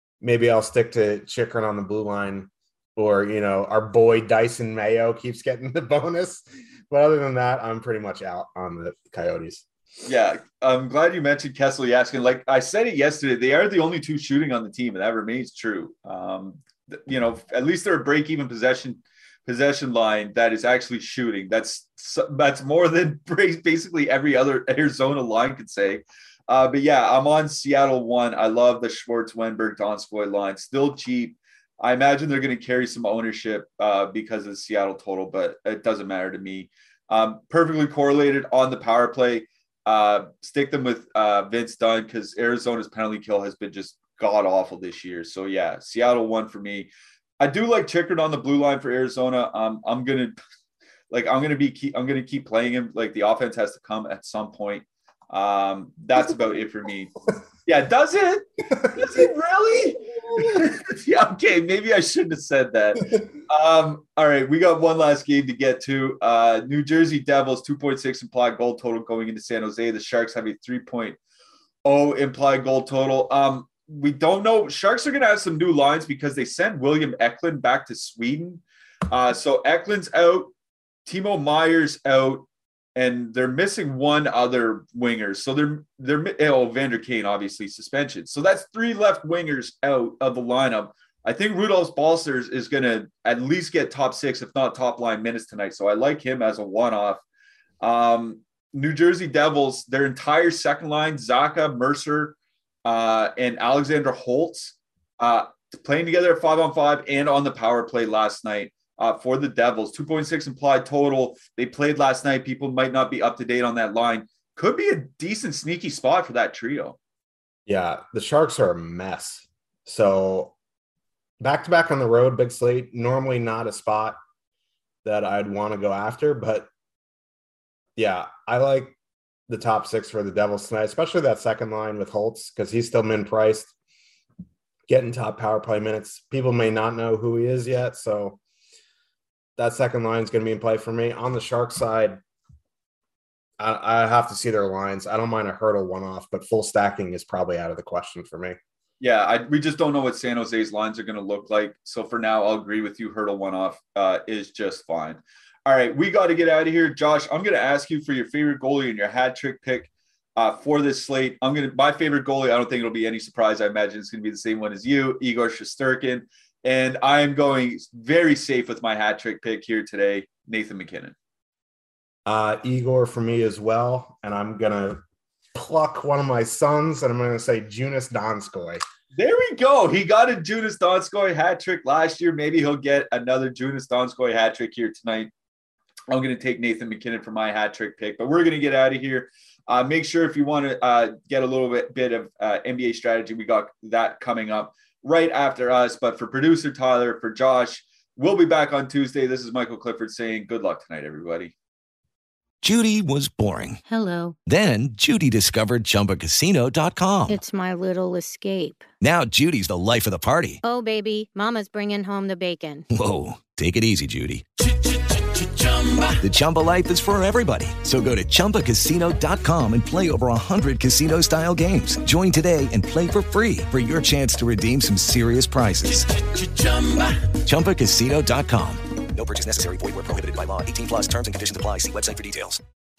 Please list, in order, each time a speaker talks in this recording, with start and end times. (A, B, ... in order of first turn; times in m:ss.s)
0:00.2-0:09.7 A
0:10.0-0:50.4 B
0:51.1-0:57.1 B
0:57.6-1:11.2 B
1:11.8-1:20.5 B
1:21.1-1:37.2 B
1:37.8-1:57.0 B
1:57.7-2:00.6 A
2:01.4-2:04.2 A
2:05.0-2:06.7 A
2:08.0-2:09.0 A
2:09.5-2:13.7 A
2:14.9-2:18.4 A
2:19.6-2:22.2 A
2:23.6-2:28.6 A
2:29.0-2:51.1 B
2:52.3-2:55.0 A
2:55.6-2:58.8 A
2:59.2-3:05.3 B
3:06.1-3:21.5 B
3:22.6-3:23.8 C
3:23.9-3:24.4 D
3:24.4-3:27.4 C
3:27.3-3:28.8 D
3:29.0-3:30.6 C
3:30.6-3:32.9 D
3:32.9-3:34.4 C
3:36.2-3:46.2 C
3:47.3-3:48.8 C
3:49.1-3:52.6 E